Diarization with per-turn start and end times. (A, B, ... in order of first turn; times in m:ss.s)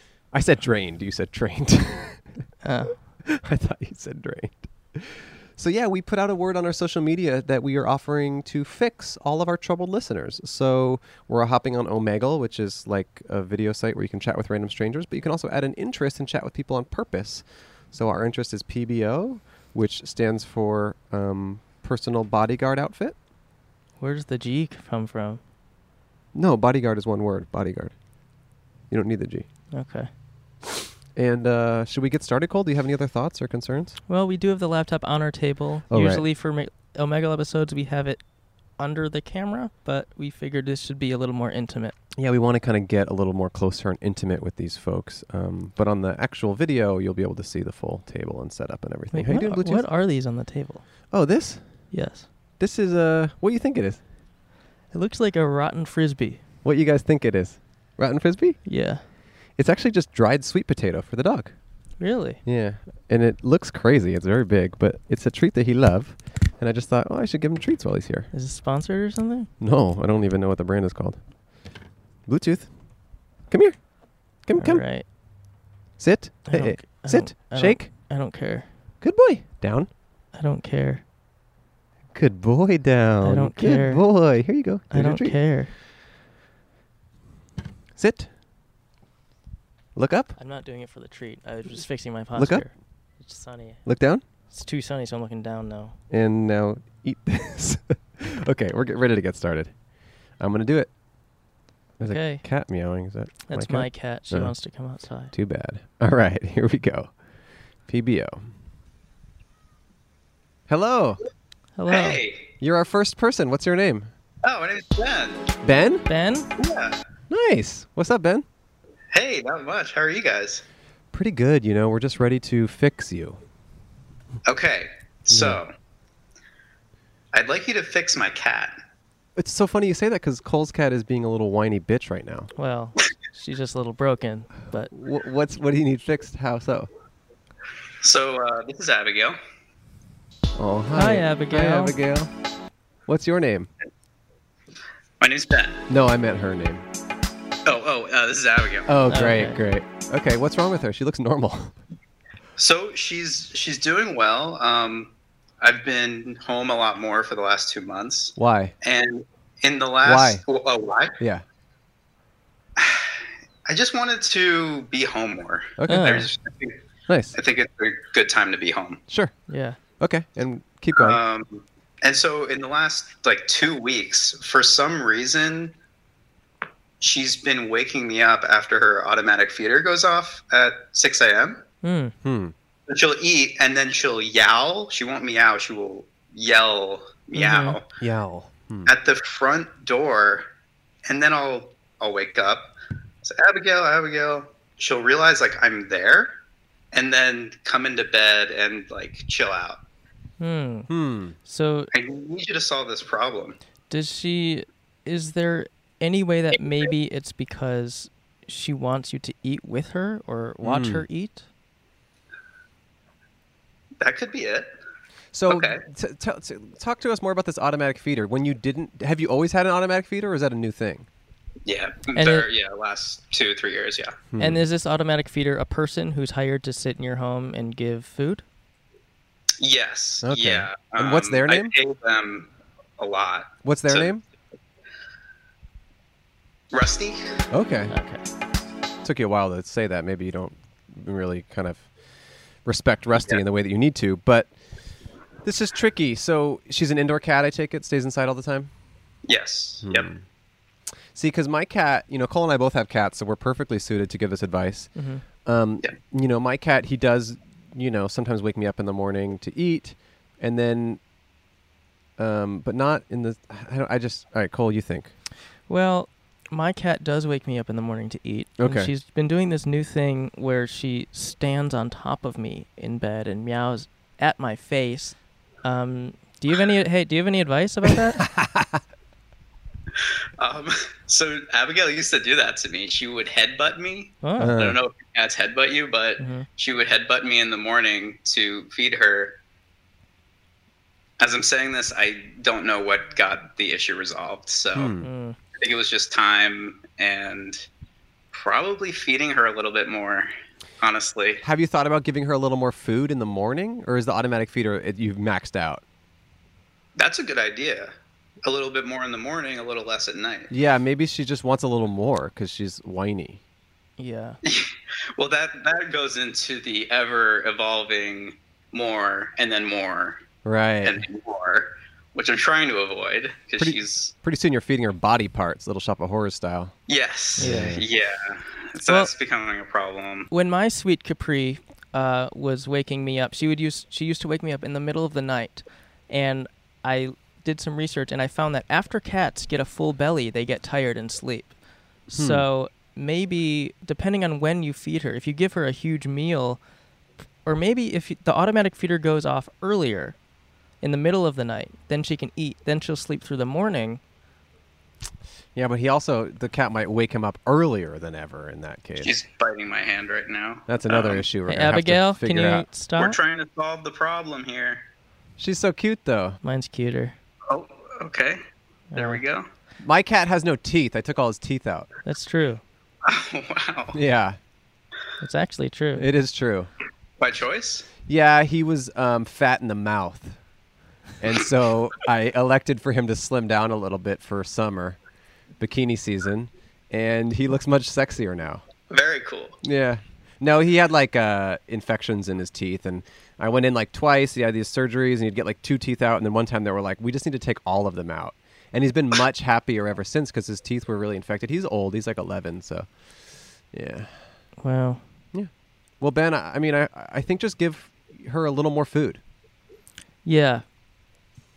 0:00.2-0:02.3 A
0:02.6-0:03.0 B
0:03.4-0:23.2 A
0:24.0-0:25.4 B
0:26.3-0:28.0 A
0:28.9-0:29.5 A
0:29.7-0:30.1 B
0:31.2-0:34.0 A
0:34.1-0:42.0 B
0:35.9-0:36.2 A
0:42.2-0:49.9 A
0:49.1-0:51.1 B
0:51.1-0:52.0 A
0:51.9-0:52.3 B
0:52.6-0:54.0 A
0:54.9-0:56.4 B
0:56.6-1:01.6 A
0:58.6-0:59.0 B
1:02.0-1:02.4 B
1:02.4-1:08.3 A
1:08.3-1:09.5 B
1:09.6-1:11.7 A
1:12.3-1:14.9 A
1:14.6-1:15.1 B
1:16.0-1:18.1 A
1:16.5-1:18.7 B
1:19.0-1:19.9 A
1:20.3-1:21.0 B
1:22.1-1:25.4 A
1:23.2-1:24.2 B
1:24.9-1:25.7 B
1:28.0-1:28.3 A
1:30.0-1:30.4 A
1:30.4-1:33.9 B
1:32.4-1:32.7 A
1:33.8-1:34.2 A
1:34.5-1:36.0 B
1:36.1-1:40.9 A
1:42.0-1:44.6 A
1:42.1-1:42.4 B
1:43.5-1:45.3 B
1:45.3-1:47.2 A
1:47.9-1:48.5 A
1:50.7-1:51.2 A
1:51.8-1:52.2 B
1:51.9-1:52.5 C
1:52.6-1:54.1 A
1:54.4-1:55.5 C
1:55.6-1:56.1 A
1:56.1-1:56.5 B
1:56.6-1:57.0 C
1:57.3-1:58.4 A
1:59.1-2:00.6 C
2:01.1-2:03.4 A
2:04.4-2:05.7 C
2:05.3-2:05.6 A
2:07.3-2:08.8 C
2:09.4-2:12.5 A
2:12.6-2:14.9 B
2:14.9-2:16.9 A
2:18.0-2:19.4 C
2:20.6-2:22.3 A
2:21.0-2:21.9 B
2:23.1-2:23.7 A
2:25.2-2:25.9 C
2:25.9-2:26.8 A
2:27.7-2:28.9 C
2:28.9-2:31.8 A
2:29.1-2:29.6 B
2:32.6-2:41.2 C
2:38.4-2:38.8 A
2:40.0-2:40.4 A
2:41.2-2:41.4 A
2:42.8-2:43.1 C
2:43.7-2:46.8 C
2:45.8-2:46.2 A
2:45.9-2:46.3 B
2:47.1-2:47.4 A
2:47.3-2:49.0 C
2:49.1-2:49.3 A
2:49.5-2:49.8 B
2:50.0-2:51.2 A
2:51.0-2:55.8 C
2:57.0-3:01.6 C
3:01.8-3:02.1 B
3:02.2-3:02.5 A
3:02.9-3:07.8 C
3:07.4-3:07.8 B
3:08.0-3:08.9 A
3:08.9-3:10.5 C
3:11.1-3:12.7 C
3:13.2-3:16.4 C
3:16.9-3:19.8 C
3:20.4-3:20.9 B
3:20.9-3:21.4 A
3:21.4-3:21.9 B
3:21.9-3:23.6 C
3:23.9-3:31.5 B
3:30.6-3:31.1 A
3:34.0-3:34.7 C
3:35.3-3:41.1 A
3:35.5-3:35.8 C
3:41.7-3:44.2 C
3:42.2-3:42.5 B
3:44.3-3:44.6 A
3:44.4-3:48.4 B
3:49.6-3:54.1 C
3:50.2-3:51.7 A
3:53.6-3:54.2 A
3:56.7-3:57.2 C
3:57.5-3:57.9 A
3:57.9-3:58.2 B
3:59.0-4:01.9 A
4:02.6-4:04.5 A
4:05.4-4:08.7 A
4:09.3-4:10.1 C
4:09.8-4:10.2 A
4:11.1-4:21.0 A
4:15.0-4:15.2 B
4:22.2-4:25.1 A
4:25.7-4:38.2 B
4:28.6-4:28.9 A
4:38.2-4:38.8 A
4:40.4-4:49.4 C
4:44.2-4:44.5 B
4:44.4-4:44.8 A
4:46.2-4:46.5 B
4:51.2-4:54.9 C
4:54.7-4:55.1 A
4:55.0-4:55.4 B
4:55.6-4:57.6 C
4:58.3-5:00.3 C
5:00.8-5:01.4 C
5:01.4-5:05.8 A
5:07.0-5:07.9 C
5:08.4-5:10.5 C
5:10.5-5:13.4 A
5:14.0-5:14.4 B
5:14.4-5:20.2 C
5:20.4-5:21.0 A
5:20.8-5:24.1 C
5:23.6-5:26.8 A
5:26.9-5:30.3 C
5:27.4-5:27.8 B
5:27.4-5:27.8 A
5:30.3-5:46.6 B
5:42.1-5:42.5 A
5:47.4-5:50.2 B
5:50.8-5:54.0 B
5:55.6-5:59.1 A
5:59.0-6:01.3 C
6:00.7-6:02.7 A
6:01.5-6:03.2 B
6:03.0-6:04.8 C
6:05.4-6:06.4 A
6:06.4-6:07.2 B
6:07.5-6:08.4 C
6:08.9-6:09.2 B
6:08.9-6:09.5 C
6:09.8-6:11.9 A
6:12.0-6:12.6 B
6:13.0-6:14.0 C
6:13.9-6:14.4 A
6:15.2-6:16.1 B
6:16.0-6:16.7 A
6:17.2-6:17.9 C
6:18.0-6:20.4 A
6:21.2-6:25.0 A
6:25.6-6:28.6 A
6:28.9-6:29.6 C
6:29.6-6:42.9 A
6:43.7-6:44.2 A
6:44.6-6:45.0 B
6:45.3-6:49.2 A
6:50.2-6:50.6 B